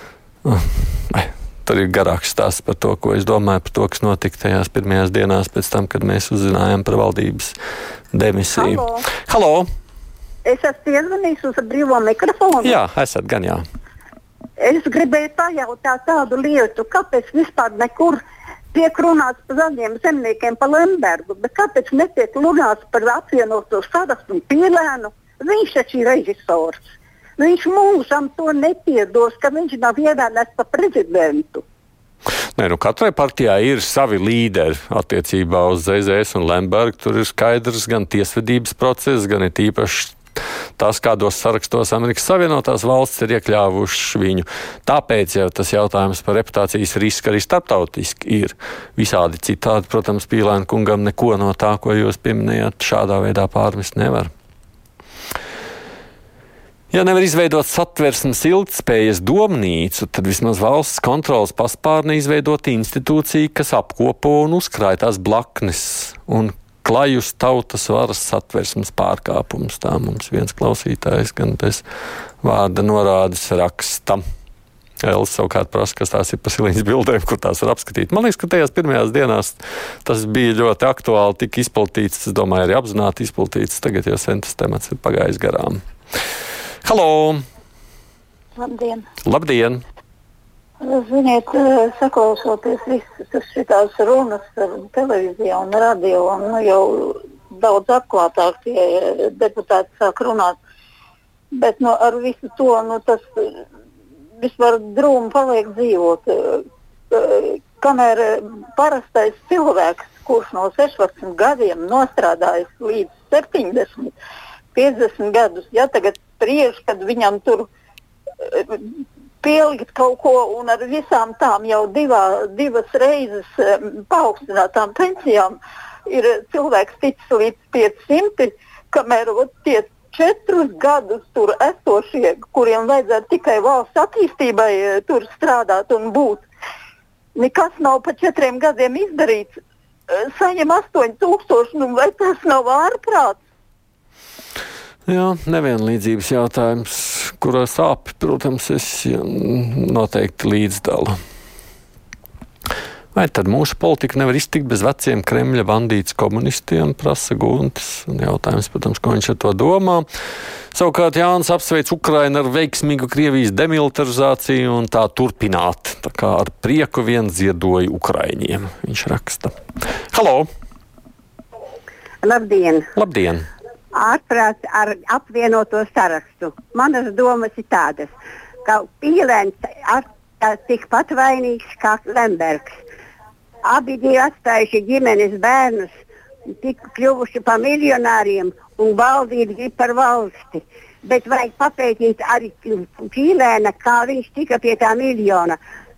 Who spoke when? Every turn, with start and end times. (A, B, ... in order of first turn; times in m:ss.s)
0:00.4-0:07.5 A
0:08.1-0:09.6 A
0:08.7-0:09.0 B
0:10.4-0:12.8 B
0:12.6-0:13.6 A
0:14.6-0:18.2 B
0:18.7-0:26.8 B
0:27.4-0:31.6 B
0:32.6-0:40.2 A
0:40.8-0:54.3 A
0:56.9-1:11.8 A
1:12.4-1:14.2 A
1:15.0-1:25.8 A
1:26.8-1:27.4 A
1:28.6-1:29.0 C
1:29.2-1:29.8 A
1:30.8-1:40.6 C
1:41.5-1:43.6 C
1:44.4-1:54.1 C
1:54.7-1:57.7 C
1:58.4-2:16.5 C
2:17.4-2:19.6 C
2:20.1-2:23.4 C
2:25.1-2:31.2 A
2:33.1-2:40.0 A
2:40.7-2:49.5 A
2:50.1-2:50.5 A
2:52.2-2:52.9 D
2:53.0-2:53.5 A
2:53.9-2:58.1 D
2:58.6-3:02.8 D
3:03.6-3:05.9 D
3:06.6-3:15.6 D